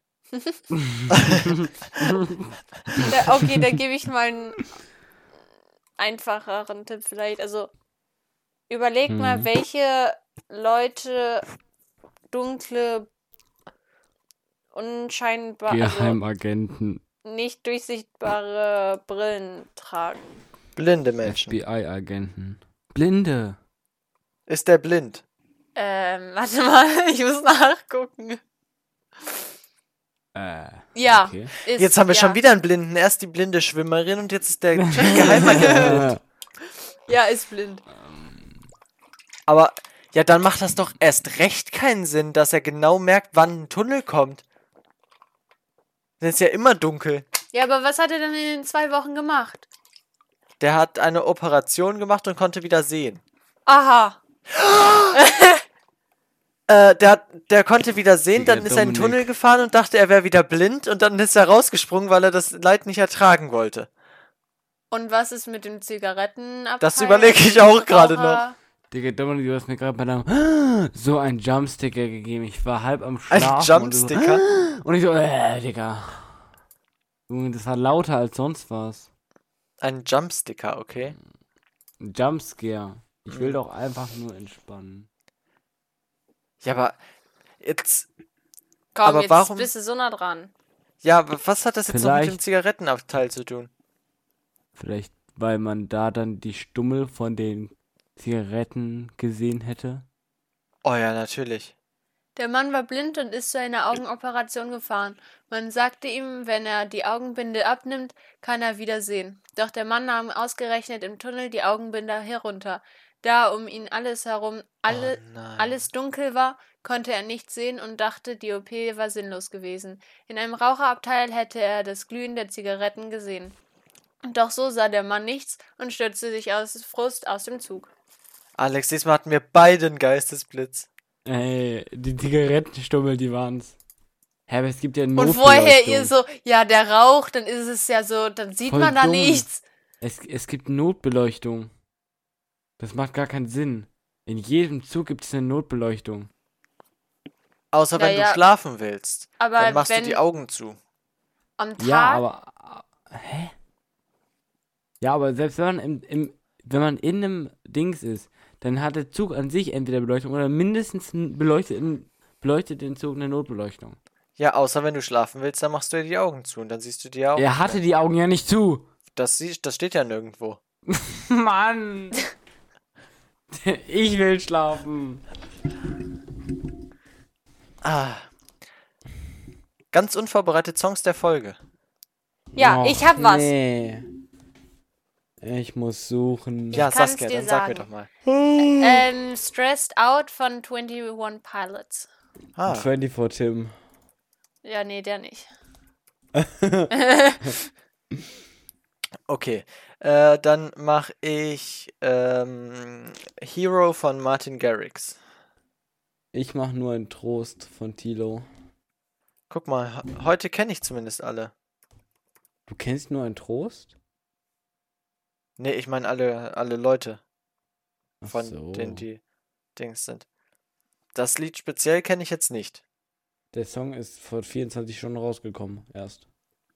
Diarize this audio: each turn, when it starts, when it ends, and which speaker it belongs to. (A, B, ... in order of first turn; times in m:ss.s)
0:00.3-0:00.6 A
0:00.7-0:03.5 B
0:01.1-0:02.2 C
0:03.1-0:04.7 A
0:06.0-0:07.7 A
0:08.7-0:11.5 A
0:09.1-0:09.5 B
0:12.3-0:13.1 A
0:14.7-0:16.2 A
0:15.7-0:17.0 B
0:17.2-0:20.3 A
0:20.8-0:21.6 C
0:21.2-0:23.6 B
0:24.5-0:25.2 C
0:25.8-0:28.4 A
0:30.4-0:31.5 B
0:30.9-0:32.4 A
0:31.8-0:36.1 C
0:34.8-0:36.2 B
0:35.0-0:36.0 A
0:37.1-0:37.8 A
0:37.9-0:38.6 B
0:39.5-0:44.4 C
0:46.2-0:47.3 C
0:47.5-0:49.7 A
0:50.6-0:53.2 C
0:53.6-0:54.2 A
0:54.5-0:55.2 C
0:55.1-0:55.6 A
0:56.7-1:03.9 C
0:58.3-0:59.3 B
1:04.9-1:08.6 A
1:06.8-1:08.4 C
1:08.9-1:16.4 B
1:13.3-1:14.4 C
1:17.3-1:19.1 B
1:19.8-1:21.2 C
1:22.0-1:25.1 B
1:23.3-1:23.6 C
1:26.6-1:27.0 C
1:27.6-1:28.1 C
1:28.9-1:30.5 A
1:29.0-1:29.7 C
1:31.0-1:33.7 C
1:31.9-1:32.4 B
1:34.7-1:40.1 B
1:40.8-1:41.7 C
1:42.4-2:03.6 A
1:54.9-1:55.8 C
2:04.2-2:07.9 A
2:08.6-2:10.9 C
2:11.2-2:13.8 B
2:14.5-2:16.1 B
2:15.2-2:19.6 A
2:18.7-2:19.5 B
2:20.0-2:21.7 B
2:22.8-2:26.3 B
2:27.7-2:30.8 C
2:28.0-2:28.4 A
2:29.4-2:30.2 A
2:31.6-2:32.2 A
2:31.8-2:33.5 B
2:35.0-2:44.0 B
2:44.4-2:47.8 C
2:47.4-2:48.9 B
2:49.1-2:50.6 C
2:50.9-2:52.2 B
2:53.5-2:55.2 B
2:57.8-2:58.3 C
2:59.9-3:01.6 C
3:02.6-3:03.5 A
3:02.6-3:04.1 B
3:05.4-3:06.8 B
3:06.7-3:07.9 A
3:06.7-3:08.1 C
3:08.3-3:09.1 B
3:08.8-3:12.1 A
3:12.6-3:12.9 C
3:12.7-3:13.7 B
3:14.6-3:15.5 A
3:16.4-3:16.9 B
3:16.9-3:17.6 A
3:19.3-3:25.2 C
3:26.3-3:28.5 B
3:29.5-3:31.5 C
3:32.7-3:33.9 B
3:35.6-3:37.2 C
3:38.2-3:39.0 B
3:38.3-3:39.2 C
3:39.8-3:40.3 C
3:41.1-3:42.8 C
3:43.5-3:46.2 B